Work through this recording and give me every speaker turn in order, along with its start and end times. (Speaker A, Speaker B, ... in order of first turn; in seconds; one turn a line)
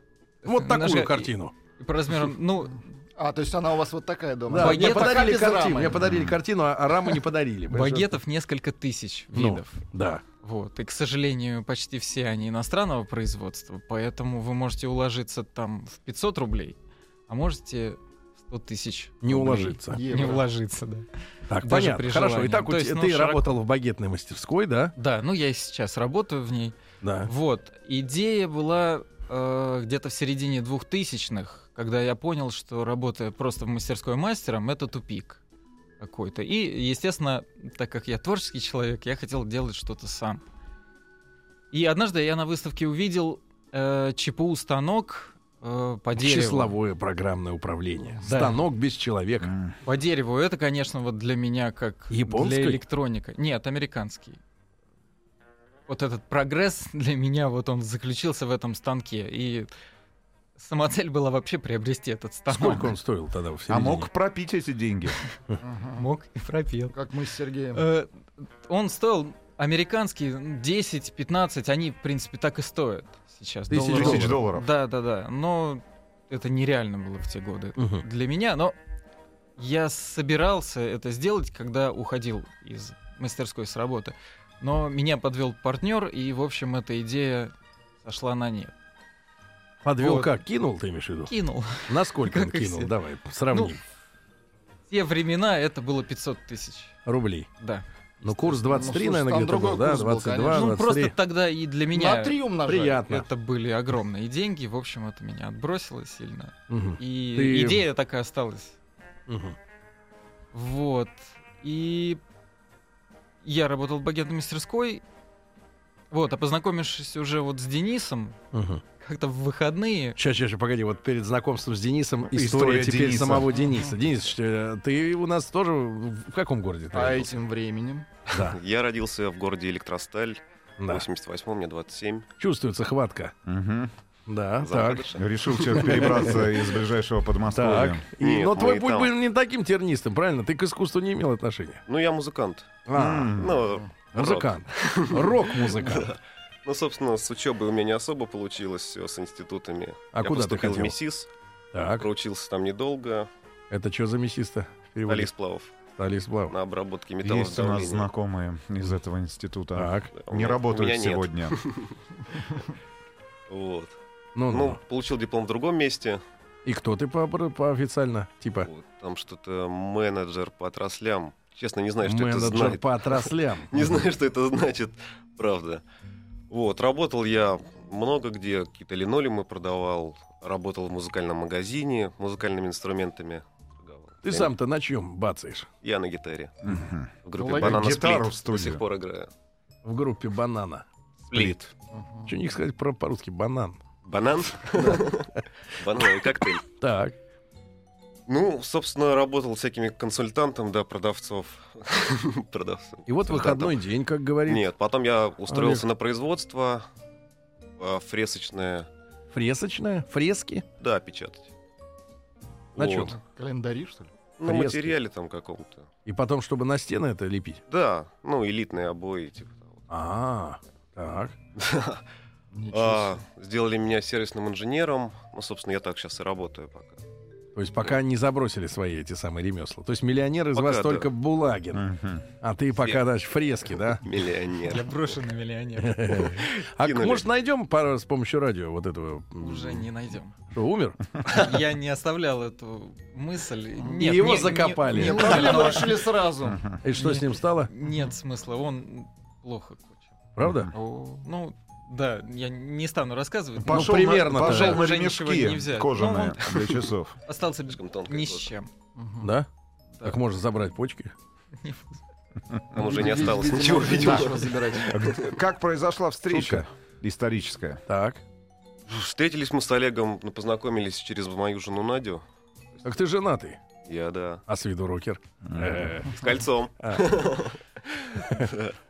Speaker A: 0.4-2.9
Speaker B: 0.5-1.5
Speaker C: 3.2-6.0
Speaker B: 4.5-8.2
Speaker A: 4.6-5.3
Speaker D: 6.0-6.4
Speaker A: 7.7-9.8
Speaker B: 9.3-10.2
Speaker A: 10.4-23.6
Speaker B: 19.2-20.0
Speaker C: 19.9-20.5
Speaker B: 21.5-24.9
Speaker A: 25.0-35.4
Speaker B: 27.0-27.3
Speaker A: 36.0-40.4
Speaker A: 41.7-46.8
Speaker B: 46.2-49.5
Speaker A: 48.2-48.6
Speaker D: 49.4-49.7
Speaker A: 49.9-54.4
Speaker B: 52.1-52.8
Speaker A: 55.9-59.7
Speaker A: 60.6-62.9
Speaker B: 62.5-64.1
Speaker D: 63.7-65.2
Speaker C: 65.6-66.0
Speaker A: 66.0-67.0
Speaker C: 66.9-67.8
Speaker A: 67.7-78.8
Speaker B: 73.7-74.4
Speaker D: 73.8-74.7
Speaker B: 77.8-78.0
Speaker A: 79.6-88.7
Speaker B: 89.8-93.8
Speaker A: 90.0-90.4
Speaker A: 91.3-93.0
Speaker A: 93.5-93.8
Speaker A: 94.9-97.0
Speaker B: 97.1-97.5
Speaker A: 97.6-98.8
Speaker B: 98.2-101.2
Speaker C: 98.7-100.7
Speaker A: 100.5-102.4
Speaker C: 101.9-103.0
Speaker B: 102.7-103.3
Speaker A: 103.1-108.8
Speaker B: 106.7-107.8
Speaker B: 109.3-109.6
Speaker A: 110.5-112.2
Speaker A: 113.4-115.0
Speaker A: 116.1-118.4
Speaker B: 118.5-118.8
Speaker A: 119.0-120.2
Speaker B: 120.2-127.4
Speaker D: 122.3-123.5
Speaker C: 126.9-128.1
Speaker B: 128.3-128.6
Speaker E: 128.3-132.3
Speaker B: 130.8-131.1
Speaker B: 132.4-133.3
Speaker D: 133.5-133.9
Speaker B: 134.3-135.1
Speaker E: 134.6-136.3
Speaker D: 135.2-138.0
Speaker B: 135.8-136.6
Speaker B: 137.5-141.8
Speaker E: 138.2-139.1
Speaker E: 141.9-142.8
Speaker B: 142.9-143.3
Speaker D: 142.9-143.7
Speaker E: 143.4-151.3
Speaker B: 144.1-146.1
Speaker B: 150.1-151.0
Speaker B: 151.7-152.1
Speaker E: 151.8-153.3
Speaker B: 153.7-155.3
Speaker E: 155.1-155.8
Speaker B: 156.0-156.6
Speaker E: 156.5-158.1
Speaker D: 157.2-161.6
Speaker B: 159.8-160.1
Speaker E: 160.1-162.0
Speaker E: 163.5-164.0
Speaker B: 164.4-164.8
Speaker E: 164.5-166.2
Speaker B: 166.7-168.7
Speaker E: 168.7-175.8
Speaker B: 172.0-173.7
Speaker E: 176.5-184.5
Speaker B: 184.2-185.7
Speaker E: 185.8-186.6
Speaker D: 186.7-188.8
Speaker E: 187.2-189.3
Speaker C: 187.4-187.8
Speaker B: 189.8-191.5
Speaker E: 191.3-191.7
Speaker C: 191.9-192.3
Speaker B: 192.3-193.8
Speaker E: 194.1-196.6
Speaker B: 194.8-195.4
Speaker B: 196.0-197.2
Speaker E: 198.3-203.8
Speaker B: 203.1-204.7
Speaker E: 204.5-206.8
Speaker B: 205.5-205.8
Speaker E: 207.8-208.9
Speaker B: 209.3-210.7
Speaker E: 210.8-211.5
Speaker B: 212.8-213.2
Speaker E: 212.8-213.2
Speaker C: 213.1-214.1
Speaker E: 214.4-215.9
Speaker B: 214.4-215.0
Speaker B: 216.1-217.6
Speaker E: 217.7-219.9
Speaker B: 219.9-221.4
Speaker E: 221.6-222.0
Speaker C: 222.5-223.2
Speaker E: 222.7-227.0
Speaker B: 227.6-231.9
Speaker E: 230.6-231.1
Speaker D: 231.7-232.2
Speaker B: 232.4-234.0
Speaker E: 232.8-233.1
Speaker E: 233.9-234.9
Speaker A: 234.7-236.3
Speaker B: 235.8-239.9
Speaker E: 236.8-237.3
Speaker A: 239.4-240.3
Speaker B: 240.5-241.6
Speaker A: 241.3-246.1
Speaker B: 244.0-245.9
Speaker C: 244.8-246.6
Speaker B: 246.8-247.7
Speaker A: 246.9-250.1
Speaker B: 250.4-250.7
Speaker D: 250.4-250.7
Speaker A: 250.7-258.7
Speaker D: 253.6-257.1
Speaker B: 253.7-254.9
Speaker E: 257.7-258.5
Speaker C: 259.0-259.3
Speaker B: 259.2-259.5
Speaker B: 260.0-261.1
Speaker A: 261.6-262.0
Speaker C: 262.7-265.0
Speaker E: 262.7-265.4
Speaker D: 264.9-267.8
Speaker B: 266.3-266.7
Speaker B: 267.9-268.2
Speaker E: 268.9-272.2
Speaker B: 272.8-273.6
Speaker E: 273.9-274.4
Speaker B: 274.5-276.2
Speaker D: 275.5-275.9
Speaker E: 276.1-278.8
Speaker B: 276.8-277.4
Speaker B: 278.2-278.5